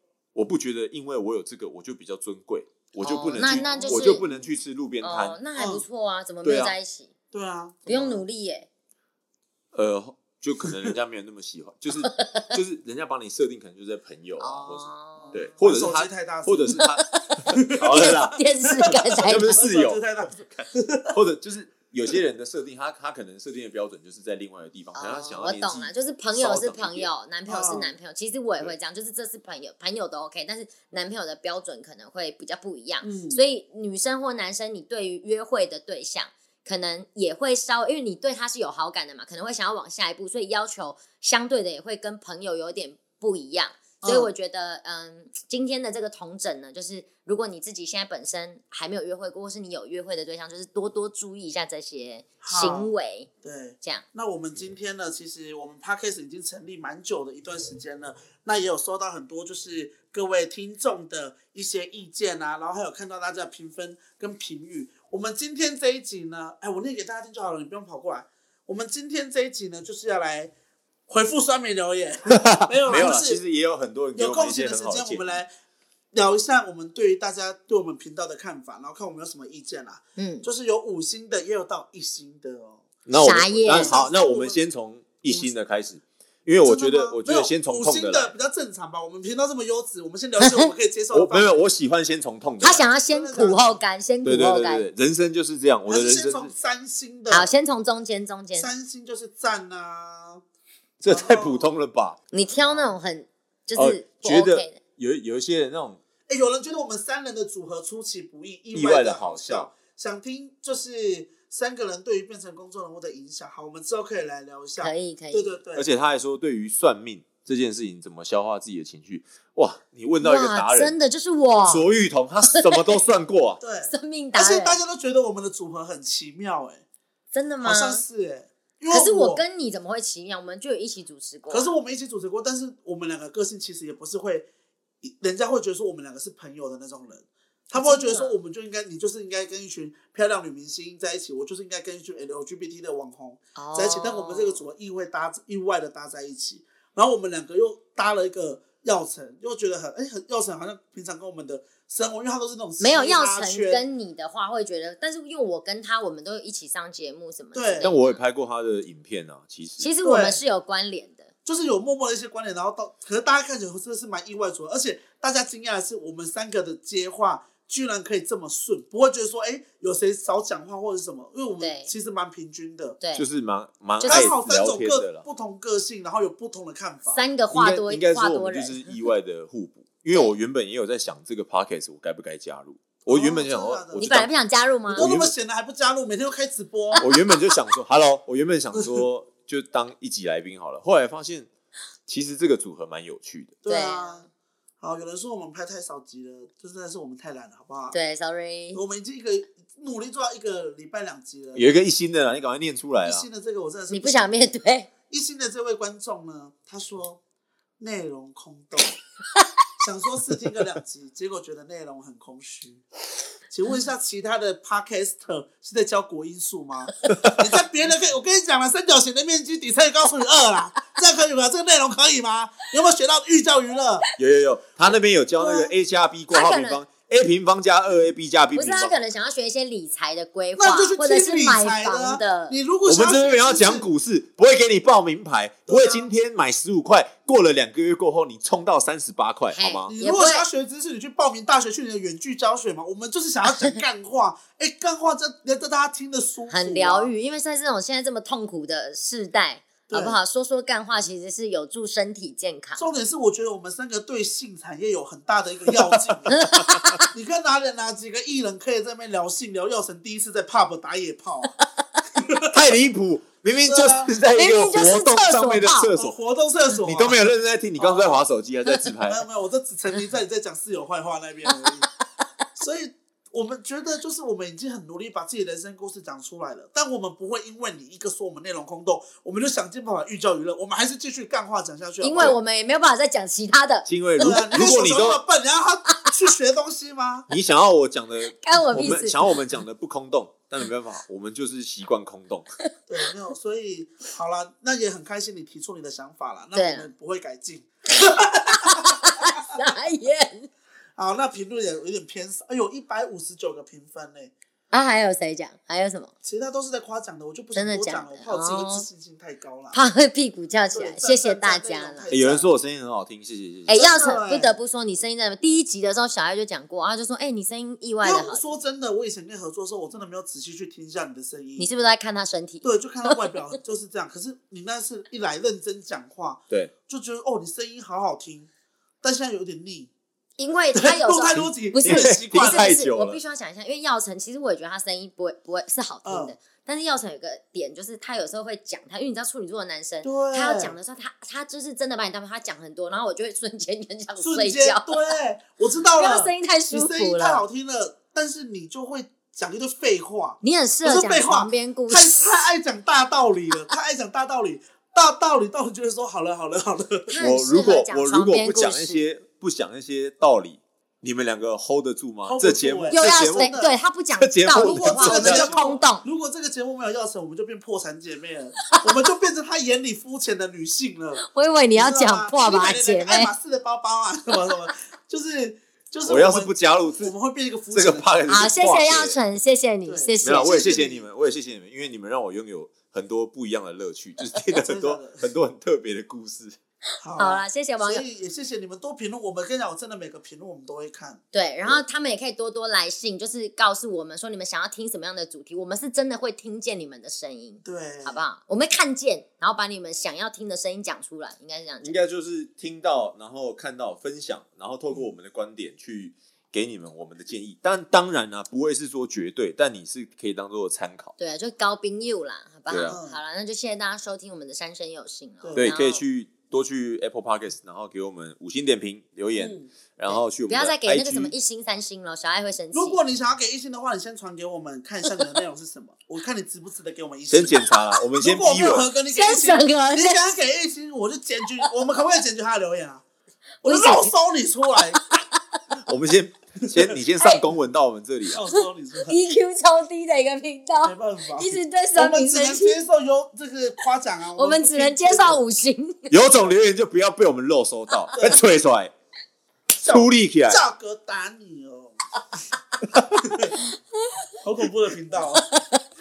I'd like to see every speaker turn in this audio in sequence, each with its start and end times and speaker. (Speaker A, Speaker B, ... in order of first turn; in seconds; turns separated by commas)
Speaker A: 0.3-5.4, Speaker B: 3.0-4.3, Speaker C: 3.4-4.5, Speaker B: 5.0-7.1, Speaker C: 5.6-5.8, Speaker A: 6.4-6.8, Speaker C: 7.3-8.2, Speaker B: 7.9-8.7, Speaker A: 9.7-27.1, Speaker B: 12.0-12.5, Speaker B: 14.4-15.5, Speaker C: 15.2-16.8, Speaker B: 16.7-19.6, Speaker C: 17.5-21.2, Speaker B: 24.9-53.3, Speaker C: 27.5-27.9, Speaker C: 33.0-33.4, Speaker C: 44.0-44.3, Speaker C: 52.4-52.9, Speaker C: 53.4-70.5, Speaker C: 71.1-73.4, Speaker A: 72.3-75.4, Speaker C: 74.2-75.5, Speaker C: 76.1-82.9, Speaker B: 80.2-80.5, Speaker A: 83.1-88.3, Speaker B: 83.1-84.0, Speaker C: 83.4-84.6, Speaker C: 85.3-85.5, Speaker C: 86.6-91.5, Speaker B: 90.4-90.7, Speaker A: 91.1-92.9, Speaker B: 92.6-94.9, Speaker C: 93.1-93.8, Speaker A: 94.2-96.5, Speaker C: 95.9-97.5, Speaker B: 97.3-98.7, Speaker C: 98.6-100.4, Speaker A: 101.0-102.2, Speaker C: 101.1-101.7, Speaker B: 102.3-104.8, Speaker C: 102.6-103.0, Speaker A: 103.8-106.0, Speaker C: 106.3-115.9, Speaker A: 108.7-109.7, Speaker B: 114.8-115.6, Speaker A: 115.8-121.0, Speaker B: 120.2-121.9, Speaker A: 121.7-123.6, Speaker B: 122.5-122.9, Speaker C: 123.6-126.8, Speaker B: 123.9-124.8, Speaker B: 127.3-128.0, Speaker C: 127.6-129.4, Speaker B: 128.9-131.7, Speaker C: 131.5-134.5, Speaker C: 135.0-153.8, Speaker B: 137.7-138.3, Speaker B: 143.6-144.6, Speaker B: 152.8-158.2, Speaker C: 157.5-157.9, Speaker A: 157.8-159.9, Speaker B: 159.8-161.3, Speaker C: 160.0-160.4, Speaker C: 161.4-173.0, Speaker B: 171.6-171.9, Speaker B: 173.0-173.3, Speaker A: 173.2-175.3, Speaker B: 174.0-174.4, Speaker C: 174.0-177.2, Speaker B: 177.1-179.0, Speaker A: 177.5-184.3, Speaker C: 183.1-184.1, Speaker B: 184.0-185.1, Speaker C: 184.9-187.0, Speaker A: 184.9-185.3, Speaker B: 187.0-187.4, Speaker A: 187.0-191.5, Speaker A: 192.1-193.6, Speaker C: 193.6-194.3, Speaker B: 193.7-194.3, Speaker C: 194.8-198.0, Speaker B: 197.9-198.8, Speaker C: 198.7-201.7, Speaker A: 201.5-203.3, Speaker C: 203.0-204.4, Speaker B: 203.9-204.9, Speaker C: 205.1-207.2, Speaker C: 207.8-209.0, Speaker C: 209.8-212.8, Speaker C: 213.5-224.1, Speaker A: 217.1-217.5, Speaker A: 224.2-229.0, Speaker C: 225.4-225.7, Speaker B: 226.3-226.8, Speaker B: 228.5-232.6, Speaker C: 230.6-233.9, Speaker A: 232.8-239.9, Speaker C: 235.7-236.1, Speaker B: 239.5-240.5, Speaker C: 239.9-247.1, Speaker B: 246.5-252.9, Speaker C: 249.9-250.2, Speaker C: 252.8-256.3, Speaker A: 255.8-257.0, Speaker B: 256.3-257.1, Speaker C: 257.1-261.5, Speaker C: 262.2-262.6, Speaker A: 262.5-266.1, Speaker C: 263.6-267.2, Speaker B: 264.4-265.9, Speaker A: 266.8-269.3, Speaker C: 267.8-268.2, Speaker C: 269.0-271.9, Speaker C: 272.6-282.4, Speaker B: 282.0-283.9, Speaker A: 283.9-285.2, Speaker C: 284.2-287.3, Speaker A: 287.3-292.5, Speaker B: 288.3-289.3, Speaker C: 292.9-299.4, Speaker B: 296.5-296.9, Speaker B: 298.0-300.5, Speaker C: 301.0-304.3, Speaker B: 304.7-306.1, Speaker C: 306.2-309.8, Speaker B: 307.5-308.9, Speaker B: 309.7-312.1, Speaker C: 310.7-312.5, Speaker A: 312.1-313.9, Speaker B: 313.7-318.5, Speaker C: 313.7-314.6, Speaker C: 318.0-321.7, Speaker B: 321.6-323.4, Speaker C: 322.6-328.5, Speaker C: 329.0-329.9, Speaker B: 330.4-345.2, Speaker C: 330.8-332.7, Speaker A: 331.8-333.2, Speaker C: 336.1-336.4, Speaker C: 340.0-340.8, Speaker C: 344.2-357.1, Speaker B: 345.9-347.4, Speaker B: 350.4-352.3, Speaker B: 357.1-359.0, Speaker A: 357.2-363.6, Speaker C: 362.2-363.8, Speaker B: 362.9-366.1, Speaker A: 364.2-365.8, Speaker C: 364.6-371.2, Speaker B: 371.2-373.3, Speaker C: 371.7-378.1, Speaker A: 376.1-377.1, Speaker A: 377.7-379.2, Speaker B: 378.3-380.7, Speaker C: 379.9-381.1, Speaker A: 380.2-386.6, Speaker C: 384.6-385.2, Speaker C: 387.0-391.2, Speaker B: 387.2-388.1, Speaker B: 391.3-401.9, Speaker C: 397.6-398.2, Speaker A: 401.8-411.1, Speaker B: 411.2-416.0, Speaker A: 412.7-413.0, Speaker C: 412.9-413.2, Speaker C: 415.4-415.8, Speaker A: 415.6-421.3, Speaker C: 419.4-419.7, Speaker B: 420.1-423.0, Speaker C: 422.7-427.6, Speaker A: 427.3-428.9, Speaker C: 428.2-433.0, Speaker B: 429.1-430.3, Speaker B: 433.6-434.1, Speaker C: 433.6-435.0, Speaker B: 434.8-435.2, Speaker A: 435.7-438.4, Speaker B: 437.2-437.5, Speaker C: 438.3-439.2, Speaker B: 438.5-442.8, Speaker C: 440.8-445.4, Speaker B: 444.4-446.2, Speaker A: 446.1-448.9, Speaker C: 448.1-448.4, Speaker C: 449.8-452.0, Speaker A: 449.8-450.6, Speaker A: 452.9-453.4, Speaker C: 454.4-455.4, Speaker B: 455.4-455.8